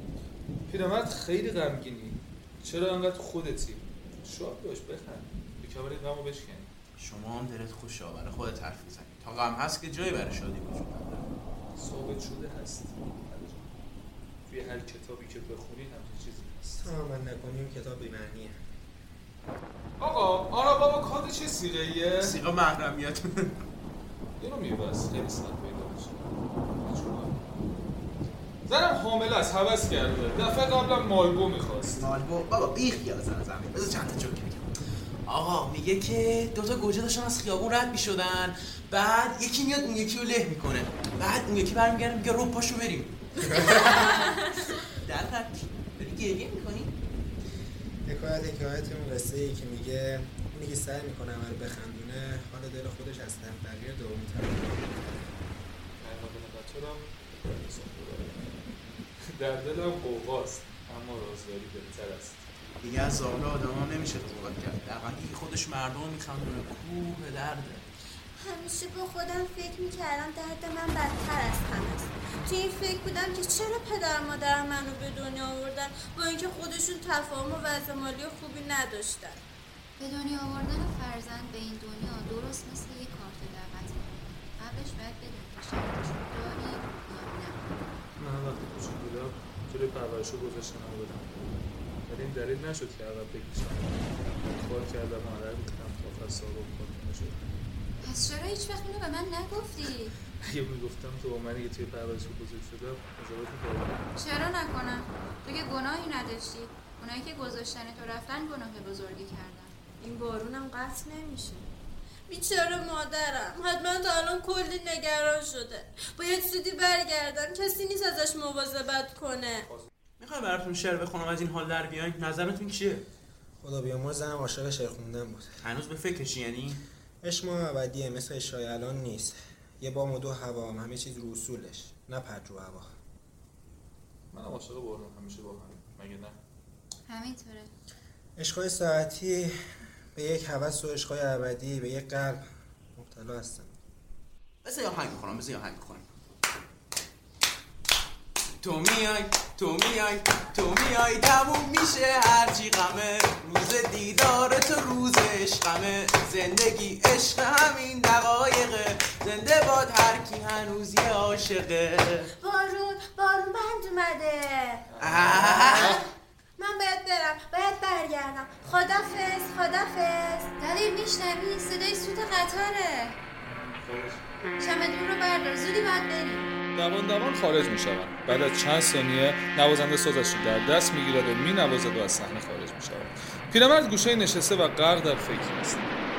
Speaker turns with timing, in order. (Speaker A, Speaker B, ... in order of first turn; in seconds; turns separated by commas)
Speaker A: 0.7-6.7, Speaker B: 7.0-11.3, Speaker A: 11.8-13.7, Speaker A: 14.5-16.9, Speaker C: 16.8-18.6, Speaker A: 20.0-22.4, Speaker B: 22.2-23.6, Speaker A: 24.4-27.4, Speaker A: 28.7-32.1, Speaker B: 31.9-34.7, Speaker B: 35.3-47.0, Speaker C: 48.1-55.4, Speaker A: 56.0-62.5, Speaker B: 62.8-67.9, Speaker D: 68.4-79.4, Speaker E: 80.0-87.7, Speaker A: 88.2-91.4, Speaker A: 92.1-97.4, Speaker E: 98.0-100.2, Speaker A: 100.4-104.1, Speaker E: 104.2-109.7, Speaker D: 110.0-111.7, Speaker D: 112.3-119.7, Speaker B: 120.2-123.1, Speaker C: 123.6-125.5, Speaker B: 125.6-126.8, Speaker C: 127.2-132.9, Speaker A: 134.3-136.4, Speaker E: 137.1-137.7, Speaker C: 138.4-139.6, Speaker C: 140.2-143.7, Speaker B: 144.6-146.1, Speaker B: 148.6-162.3, Speaker D: 162.4-164.9, Speaker A: 164.9-166.1, Speaker B: 165.0-166.0, Speaker D: 165.4-165.9, Speaker D: 166.6-170.5, Speaker E: 170.6-173.2, Speaker A: 173.4-174.3, Speaker E: 174.6-176.5, Speaker A: 176.8-185.9